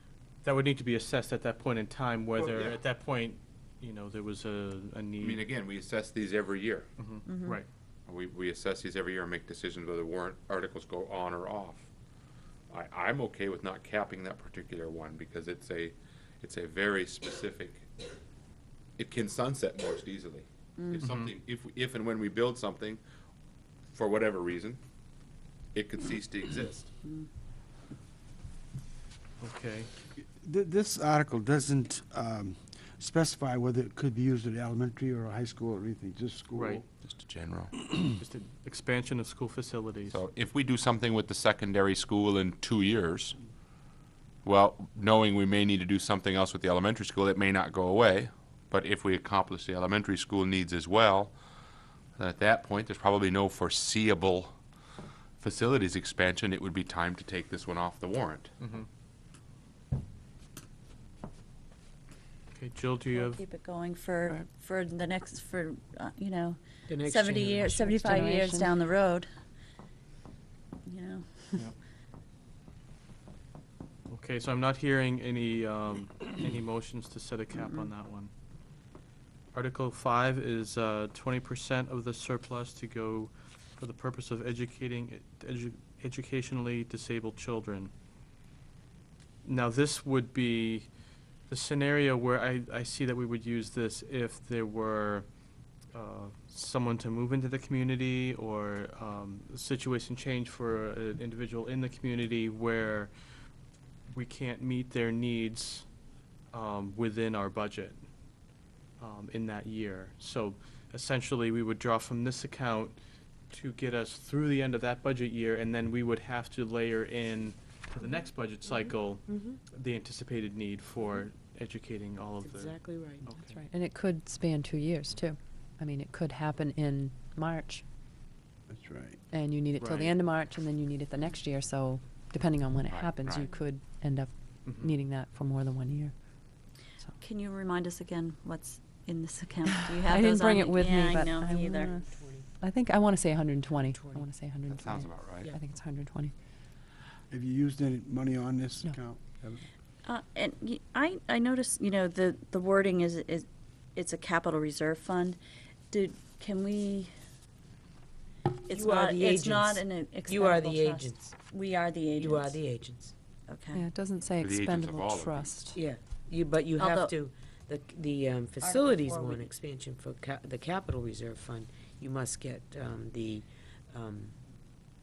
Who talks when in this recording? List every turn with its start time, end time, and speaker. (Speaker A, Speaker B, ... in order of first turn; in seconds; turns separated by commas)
Speaker A: 0.4-5.5, Speaker B: 5.2-6.9, Speaker A: 7.0-7.7, Speaker C: 7.3-7.6, Speaker B: 8.1-11.9, Speaker B: 12.7-17.9, Speaker B: 19.0-23.0, Speaker C: 20.8-21.0, Speaker A: 21.0-21.3, Speaker B: 23.9-24.8, Speaker B: 25.7-26.9, Speaker C: 27.0-27.3, Speaker A: 29.4-29.9, Speaker D: 30.2-36.9, Speaker A: 36.5-36.8, Speaker B: 37.0-37.7, Speaker A: 38.2-40.2, Speaker B: 40.1-43.4, Speaker B: 44.4-51.4, Speaker B: 52.2-54.6, Speaker B: 55.4-58.5, Speaker A: 58.6-58.9, Speaker A: 62.5-63.4, Speaker C: 63.1-69.3, Speaker E: 66.9-68.2, Speaker F: 67.9-68.8, Speaker C: 70.9-71.6, Speaker A: 74.1-78.3, Speaker A: 79.5-87.9, Speaker A: 89.4-90.9, Speaker A: 91.5-95.3, Speaker A: 95.9-103.1, Speaker A: 104.1-105.9, Speaker A: 106.5-108.0, Speaker A: 109.0-113.0, Speaker A: 113.5-123.6, Speaker E: 118.7-119.6, Speaker E: 122.4-123.3, Speaker F: 123.4-127.8, Speaker D: 128.7-129.2, Speaker F: 129.3-137.2, Speaker A: 129.8-130.2, Speaker B: 132.9-133.5, Speaker A: 134.7-134.9, Speaker C: 137.2-141.9, Speaker F: 140.0-146.3, Speaker E: 141.8-142.5, Speaker E: 143.9-144.3, Speaker B: 144.7-145.5, Speaker D: 147.3-149.7, Speaker C: 150.0-155.4, Speaker C: 155.9-157.1, Speaker C: 158.7-162.6, Speaker E: 158.7-161.3, Speaker E: 162.2-163.1, Speaker C: 163.5-163.8, Speaker F: 163.7-165.8, Speaker B: 164.4-165.5, Speaker E: 165.7-174.4, Speaker C: 166.8-167.2, Speaker C: 168.6-169.5